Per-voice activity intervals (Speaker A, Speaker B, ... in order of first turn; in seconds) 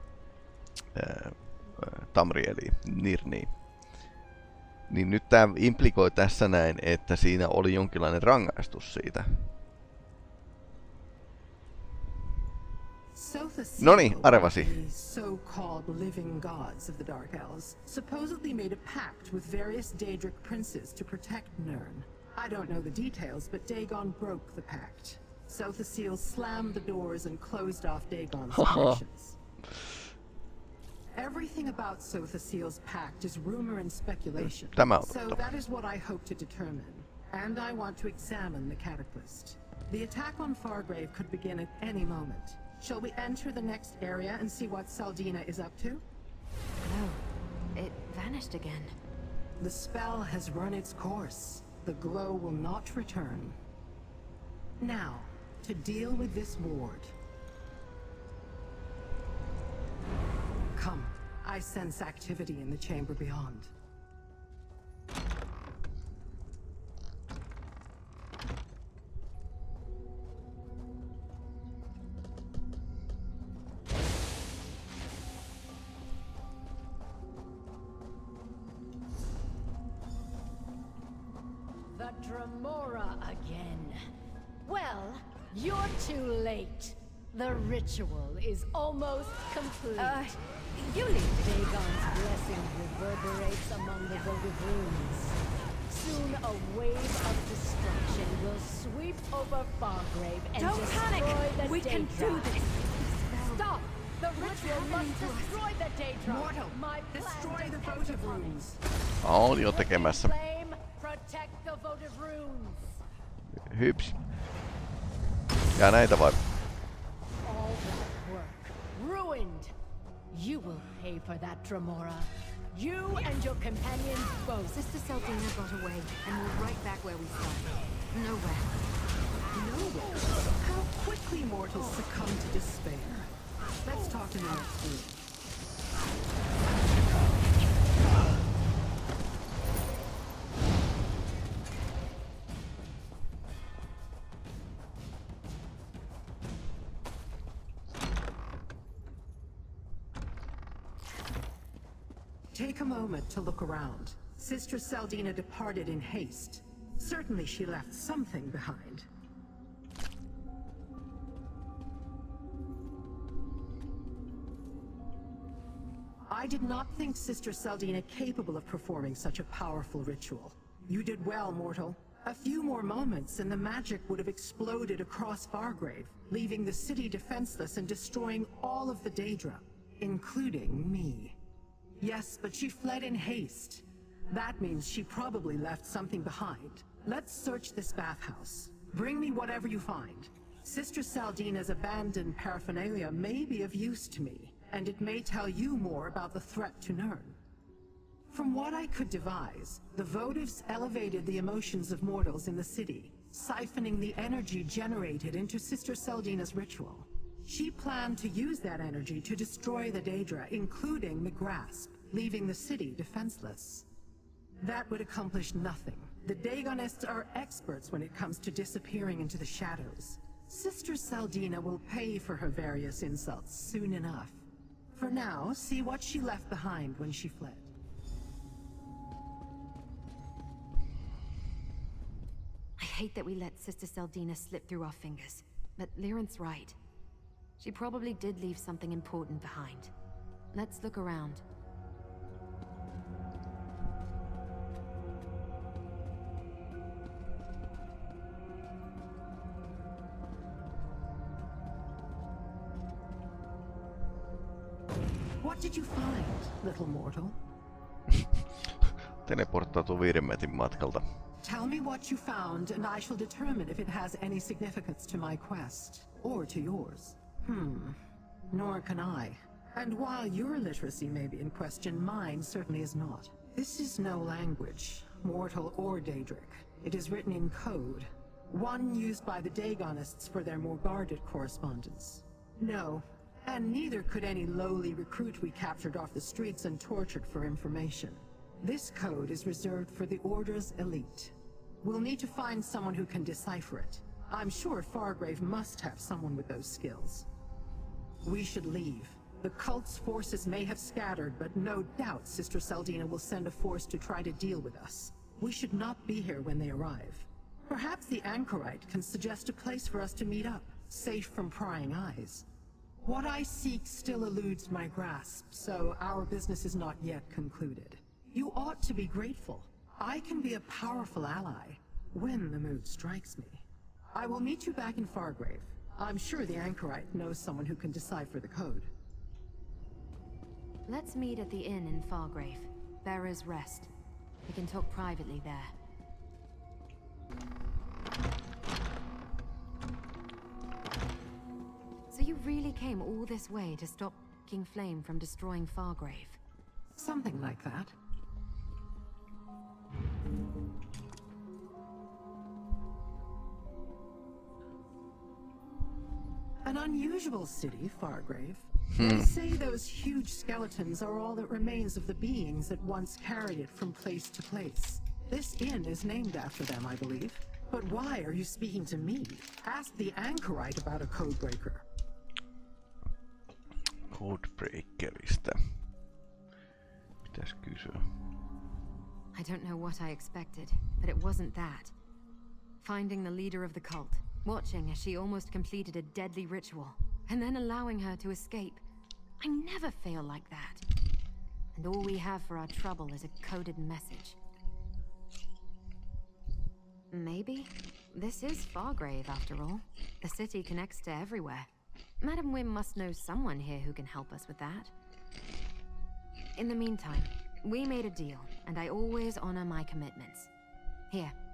Speaker A: 0.9-3.5, 4.9-9.5, 13.8-14.7, 28.5-29.0, 34.4-35.4, 109.2-110.3, 113.5-114.2, 115.7-116.4, 258.1-261.0, 358.9-359.3, 374.0-375.8, 377.2-378.1
Speaker B: 13.1-29.4, 31.1-46.0, 49.6-53.6, 54.8-57.1, 60.7-63.7, 106.2-108.8, 129.5-133.3, 133.8-135.2, 152.5-159.1, 166.3-181.4, 182.0-197.4, 198.3-213.8, 214.6-224.4, 224.9-227.7, 255.4-257.4, 261.4-268.0, 268.5-297.3, 298.2-312.4, 313.0-328.9, 346.9-347.9, 356.6-371.8
Speaker C: 46.8-47.2, 47.7-48.9, 90.0-90.3, 90.9-91.3, 100.6-103.6, 104.3-105.6, 124.6-128.8, 232.8-236.8, 237.6-239.9, 240.5-241.4, 330.9-333.9, 334.4-335.7, 342.1-346.4, 379.3-381.9, 382.8-388.8, 389.4-390.8, 391.7-394.4, 397.1-401.7, 402.2-404.9, 406.6-410.5, 411.1-411.3
Speaker D: 81.9-84.0, 84.6-90.3, 91.3-95.4, 95.9-102.7, 103.3-108.6, 109.5-113.0, 117.4-119.7, 120.3-124.8